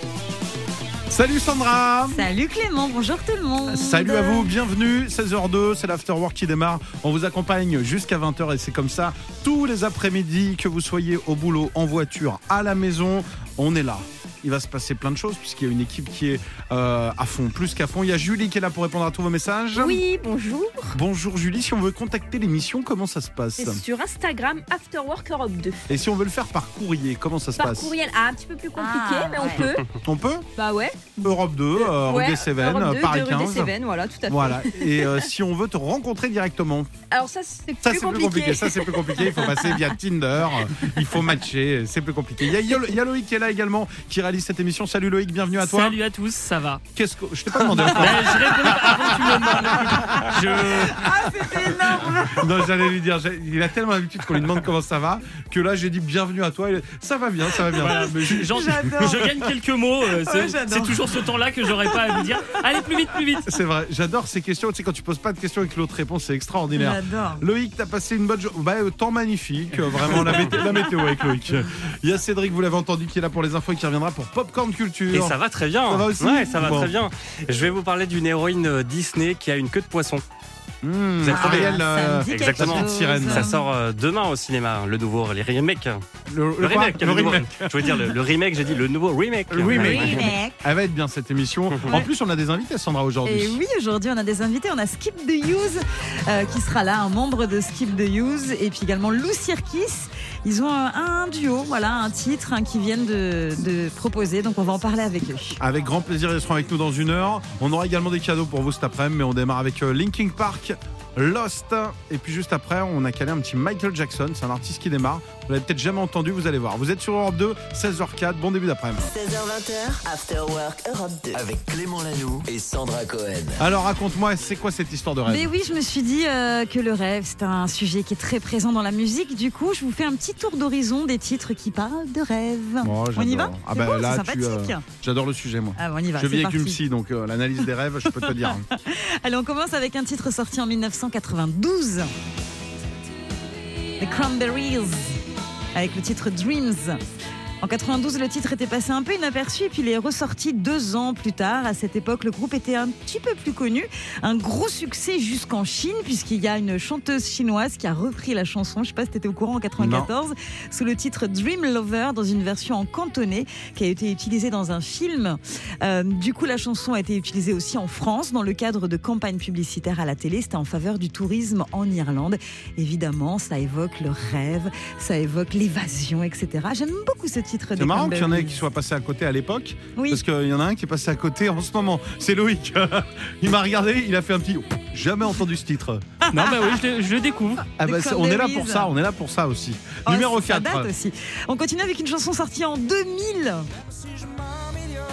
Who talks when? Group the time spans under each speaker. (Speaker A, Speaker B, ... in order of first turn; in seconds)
Speaker A: 1.1-2.3, 3.7-20.0, 20.9-23.8, 25.9-27.9, 30.0-30.5, 31.2-33.8, 34.3-36.9, 37.8-46.0, 47.0-59.5, 63.5-75.4, 75.9-77.0, 80.8-83.5, 86.3-88.2, 89.5-93.6, 105.6-119.1, 123.6-125.5, 132.8-138.7, 159.8-160.1, 177.8-186.1, 187.8-190.9
Speaker B: 2.1-4.5, 28.8-29.6, 50.8-52.7, 57.8-59.3, 60.2-62.5, 66.8-67.4, 70.5-70.9, 81.3-83.6, 89.7-90.7, 93.2-105.6, 125.3-134.8, 135.8-136.8, 138.1-142.1, 144.0-145.2, 145.7-147.0, 147.6-178.6, 180.0-180.2, 186.3-186.8, 187.8-188.9, 190.1-193.7
Speaker C: 19.8-21.0, 23.6-25.9, 27.6-29.9, 30.6-35.3, 37.1-39.8
Speaker D: 45.6-46.8, 47.7-51.1, 57.8-63.5, 186.3-187.7
Speaker E: 75.1-80.2, 81.2-86.0, 86.6-90.3
Speaker F: 119.0-121.5
Speaker G: 121.3-123.6